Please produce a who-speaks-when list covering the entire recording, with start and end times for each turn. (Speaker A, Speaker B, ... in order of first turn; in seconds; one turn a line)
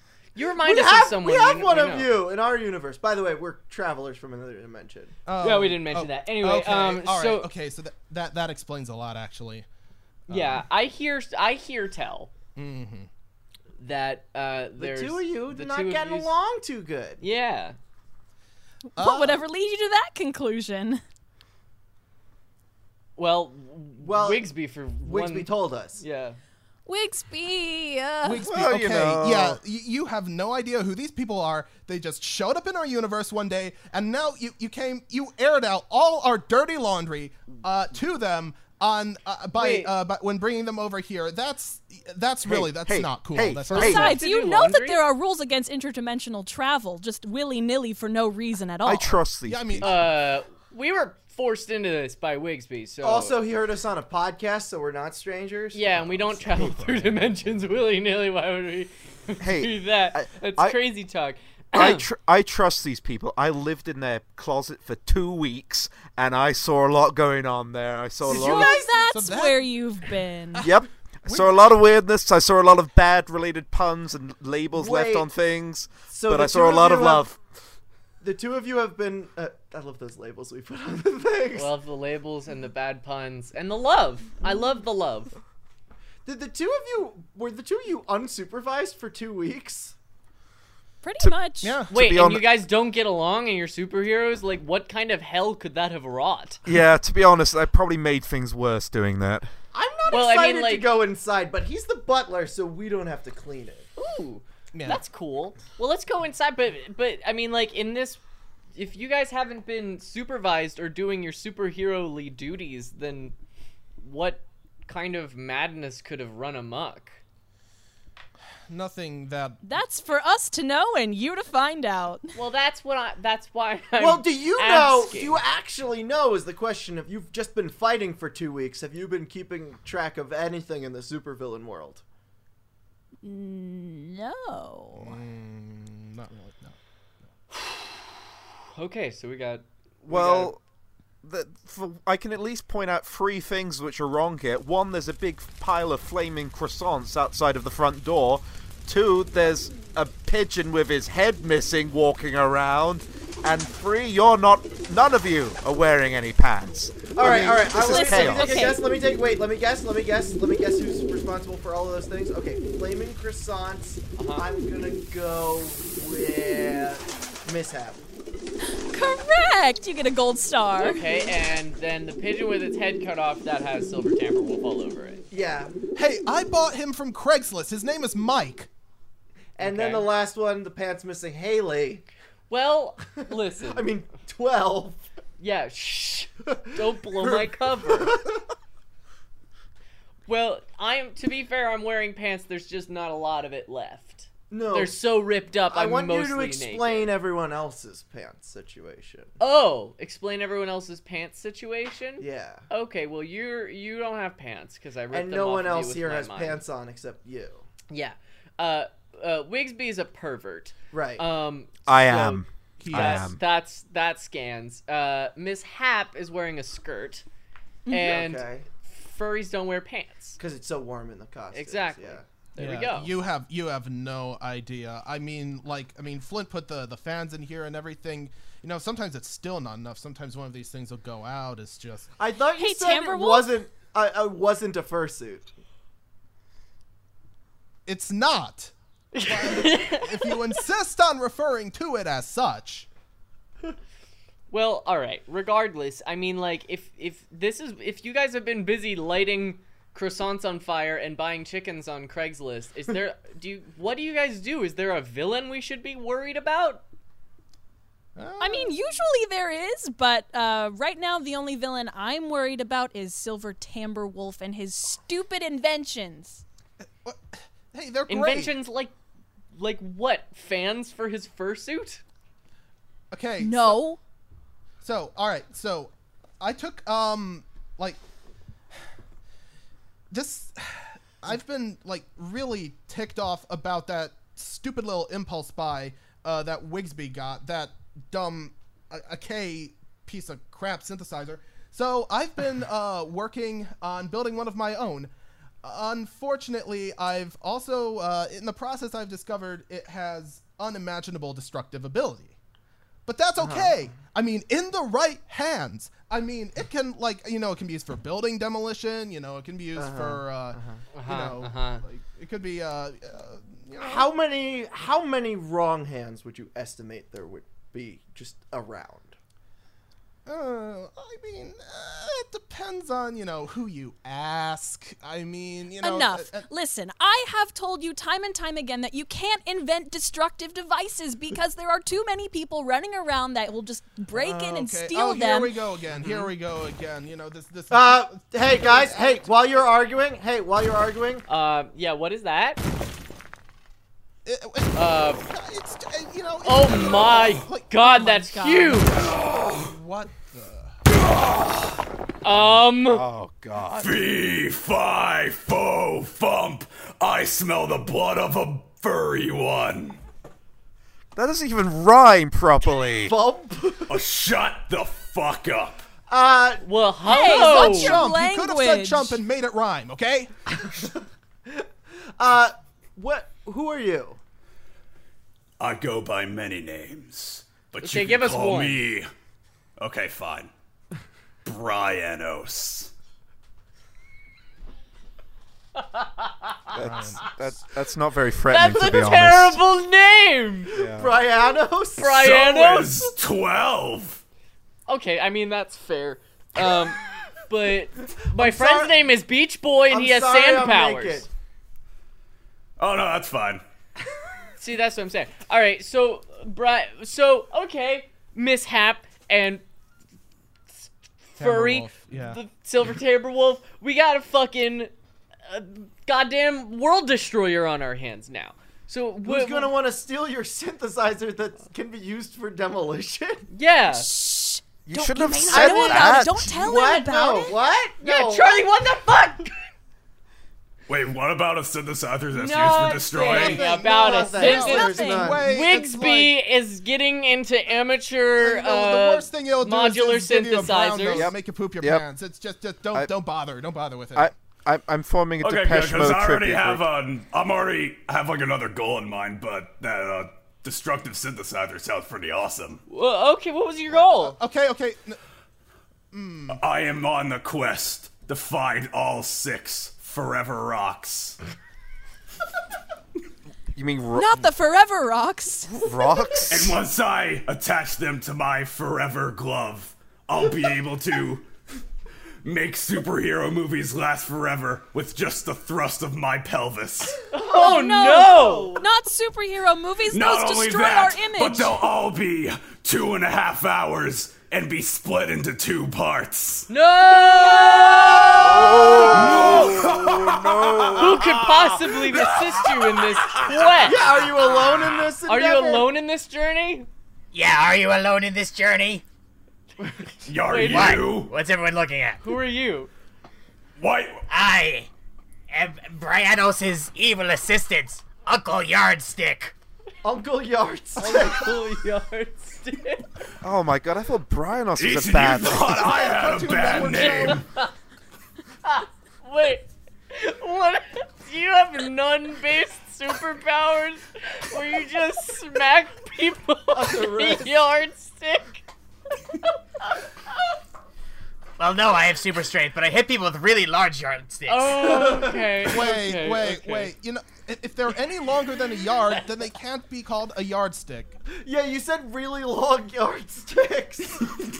Speaker A: 0.3-2.2
Speaker B: 0.6-5.2
Speaker C: 5.3-9.7
Speaker A: 5.4-7.5
Speaker C: 10.3-10.6
Speaker A: 10.3-12.3
Speaker C: 12.6-13.1
Speaker A: 13.8-16.3
Speaker B: 14.8-17.2
Speaker A: 17.2-17.8
Speaker C: 19.0-19.4
Speaker D: 19.0-21.0
Speaker A: 23.2-26.4
Speaker B: 24.0-24.5
Speaker B: 25.0-26.0
Speaker D: 26.9-28.5
Speaker C: 28.2-44.2
Speaker E: 28.4-29.6
Speaker A: 39.5-39.9
Speaker E: 42.5-44.2
Speaker A: 43.7-45.0
Speaker D: 43.8-49.2
Speaker E: 48.8-50.0
Speaker C: 49.5-50.1
Speaker A: 49.8-53.4
Speaker B: 53.0-55.8
Speaker A: 55.7-62.0
Speaker E: 59.4-60.8
Speaker E: 61.7-68.8
Speaker D: 68.3-70.7
Speaker C: 68.3-70.7
Speaker B: 68.3-68.9
Speaker E: 70.6-77.4
Speaker C: 71.3-71.6
Speaker B: 74.7-75.3
Speaker B: 76.1-77.3
Speaker B: 78.2-81.7
Speaker A: 81.6-85.4
Speaker B: 86.3-90.0
Speaker D: 91.0-91.8
Speaker C: 91.6-91.9
Speaker E: 91.9-92.5
Speaker A: 91.9-96.6
Speaker E: 96.7-99.5
Speaker B: 99.7-103.9
Speaker A: 100.1-100.9
Speaker A: 104.0-108.2
Speaker C: 104.7-105.0
Speaker A: 108.8-113.3
Speaker A: 114.0-117.2
Speaker C: 118.7-119.6
Speaker D: 119.6-122.4
Speaker A: 122.3-125.4
Speaker B: 124.0-132.0
Speaker D: 133.2-135.2
Speaker C: 134.9-136.8
Speaker A: 137.6-138.1
Speaker A: 138.8-140.5
Speaker E: 140.1-140.6
Speaker E: 141.2-158.7
Speaker B: 157.2-168.0
Speaker D: 157.7-158.8
Speaker A: 164.2-164.4
Speaker D: 168.7-171.0
Speaker A: 170.8-175.3
Speaker B: 175.3-175.8
Speaker C: 176.0-178.7
Speaker B: 179.6-182.1
Speaker A: 179.6-180.1
Speaker A: 182.5-183.9
Speaker B: 183.6-185.0
Speaker A: 185.4-188.2
Speaker B: 187.2-188.3
Speaker A: 190.3-197.1
Speaker B: 194.5-194.9
Speaker B: 195.7-199.3
Speaker A: 199.4-206.6
Speaker B: 202.2-202.6
Speaker B: 205.1-207.7
Speaker A: 207.9-217.2
Speaker B: 210.9-211.2
Speaker E: 211.9-213.4
Speaker C: 212.8-213.3
Speaker A: 217.9-220.4
Speaker B: 217.9-218.7
Speaker B: 220.4-222.2
Speaker A: 221.5-223.1
Speaker C: 222.6-232.1
Speaker B: 232.2-235.5
Speaker D: 232.6-233.5
Speaker C: 237.9-242.9
Speaker A: 239.1-240.4
Speaker A: 244.5-256.8
Speaker C: 258.2-258.8
Speaker D: 258.4-266.4
Speaker C: 267.0-268.5
Speaker A: 268.1-268.9
Speaker A: 269.6-272.0
Speaker C: 273.1-273.8
Speaker D: 273.4-274.0
Speaker C: 274.8-278.0
Speaker C: 280.1-295.1
Speaker C: 295.6-302.4
Speaker C: 303.1-314.1
Speaker B: 303.4-303.8
Speaker B: 309.8-310.8
Speaker A: 310.9-311.8
Speaker B: 313.8-319.2
Speaker C: 320.3-326.5
Speaker D: 325.8-335.6
Speaker C: 334.1-339.3
Speaker B: 337.7-341.2
Speaker A: 341.3-342.6
Speaker C: 344.2-347.7
Speaker A: 344.8-345.2
Speaker A: 346.4-349.1
Speaker D: 347.8-349.1
Speaker C: 348.9-350.8
Speaker F: 349.3-349.7
Speaker F: 350.9-351.8
Speaker A: 352.2-353.0
Speaker E: 352.3-353.9
Speaker F: 353.7-360.0
Speaker E: 361.1-363.1
Speaker B: 363.0-363.9
Speaker F: 363.9-365.8
Speaker B: 366.1-366.6
Speaker A: 366.6-368.0
Speaker D: 367.1-369.2
Speaker C: 367.1-370.3
Speaker B: 371.5-374.2
Speaker F: 375.6-379.1
Speaker A: 377.8-378.8
Speaker F: 379.8-380.5
Speaker F: 381.4-382.9
Speaker A: 385.8-386.6
Speaker E: 386.7-389.6
Speaker C: 386.8-387.3
Speaker A: 388.5-390.7
Speaker E: 390.7-391.1
Speaker B: 390.8-392.3
Speaker A: 392.0-393.1
Speaker F: 392.2-394.2
Speaker A: 394.9-401.3
Speaker B: 398.3-399.0
Speaker B: 399.9-401.3
Speaker F: 402.8-403.6
Speaker A: 404.6-409.6
Speaker A: 410.7-414.9
Speaker C: 411.4-412.4
Speaker A: 415.5-419.7
Speaker B: 419.2-423.5
Speaker A: 423.5-424.1
Speaker D: 423.9-427.6
Speaker E: 424.9-426.4
Speaker B: 425.5-428.6
Speaker A: 428.0-429.5
Speaker F: 430.9-433.7
Speaker A: 432.3-441.3
Speaker B: 433.3-435.5
Speaker C: 433.3-436.4
Speaker D: 434.2-435.5
Speaker C: 438.4-444.3
Speaker E: 441.1-442.1
Speaker E: 444.2-446.9
Speaker F: 445.4-452.8
Speaker A: 452.9-454.4
Speaker C: 453.9-455.2
Speaker C: 456.1-456.6
Speaker F: 456.5-461.4
Speaker E: 463.8-464.5
Speaker D: 464.1-465.8
Speaker E: 465.7-466.8
Speaker F: 466.5-471.5
Speaker F: 472.4-477.2
Speaker A: 477.3-478.8
Speaker B: 477.4-478.9
Speaker D: 477.6-481.8
Speaker F: 480.1-486.7
Speaker A: 486.7-489.7
Speaker E: 488.3-491.3
Speaker F: 489.0-493.9
Speaker A: 491.0-494.1
Speaker B: 493.8-495.9
Speaker A: 495.3-496.9
Speaker G: 497.3-499.0
Speaker F: 500.2-501.4
Speaker A: 500.3-501.0
Speaker G: 500.7-502.2
Speaker A: 502.2-502.9
Speaker F: 503.8-504.2
Speaker G: 504.3-504.9
Speaker G: 505.5-509.5
Speaker B: 510.0-511.6
Speaker A: 511.0-513.1
Speaker E: 513.4-515.9
Speaker F: 514.8-517.5
Speaker C: 515.8-517.4
Speaker A: 517.0-517.7
Speaker A: 518.6-528.6
Speaker B: 526.7-527.5
Speaker A: 529.4-530.0
Speaker G: 531.6-535.0
Speaker A: 534.5-536.9
Speaker B: 534.8-535.4
Speaker C: 535.6-541.2
Speaker B: 541.3-544.3